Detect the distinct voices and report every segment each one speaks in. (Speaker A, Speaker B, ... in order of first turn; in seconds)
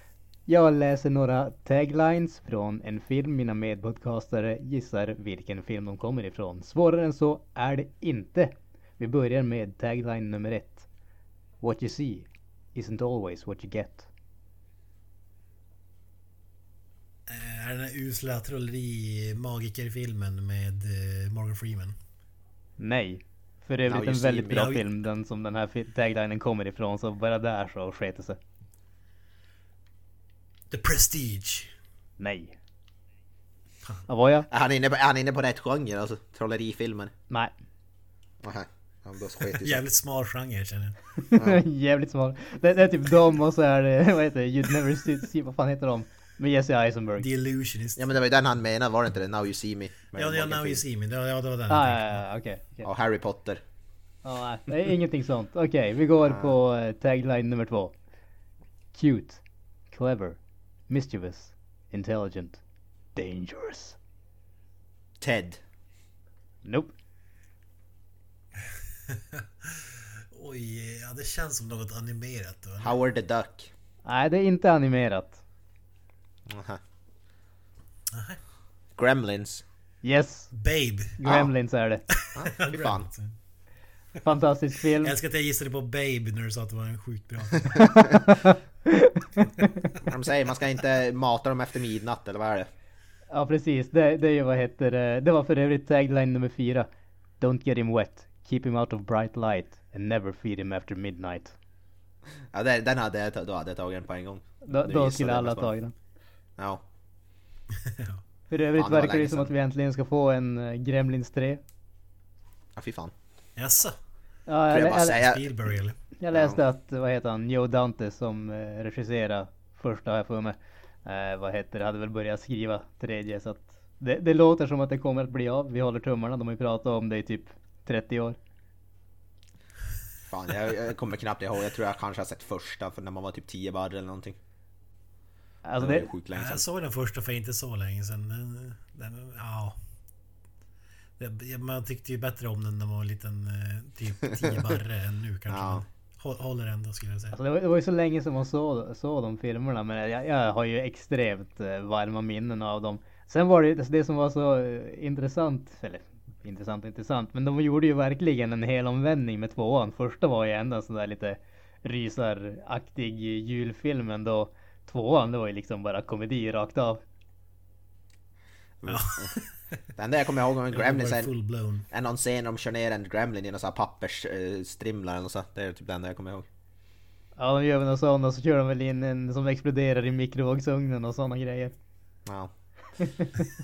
Speaker A: 0.5-10.9, 11.6-14.1, 22.8-28.4, 32.2-32.6, 34.1-34.5, 41.3-47.3, 51.7-52.9, 54.2-57.9, 58.9-62.6, 63.2-64.0, 66.7-66.9, 74.1-75.4, 80.0-80.5, 81.2-82.0, 84.2-85.1, 88.1-90.0, 93.3-96.9, 97.4-101.5, 104.7-105.9, 108.5-111.6, 114.5-115.2, 116.2-128.4, 135.7-136.1, 147.3-167.0, 177.4-181.7, 183.0-183.3
Speaker B: 17.3-22.0, 24.5-24.8, 30.7-31.8, 39.6-41.0, 47.2-48.1, 50.1-52.2, 69.1-73.0, 78.1-78.4, 80.5-81.2, 82.1-83.4, 85.0-88.1, 107.8-108.2, 113.6-114.0, 115.1-116.0, 136.3-139.8, 141.2-147.4, 168.9-169.5, 170.7-171.9
Speaker C: 23.9-24.7, 34.5-37.1, 38.4-39.8, 41.4-41.6, 48.0-50.8, 52.8-53.6, 65.2-65.6, 72.8-73.7, 76.5-76.8, 79.0-79.6, 81.2-81.5, 82.3-83.1, 90.0-92.7, 102.5-105.7, 106.6-106.8, 108.8-109.5, 112.8-113.1, 114.7-115.7, 116.3-116.6, 130.3-134.4, 135.8-136.6, 145.5-145.8, 168.8-169.3, 170.0-171.3, 171.9-176.5, 182.3-182.5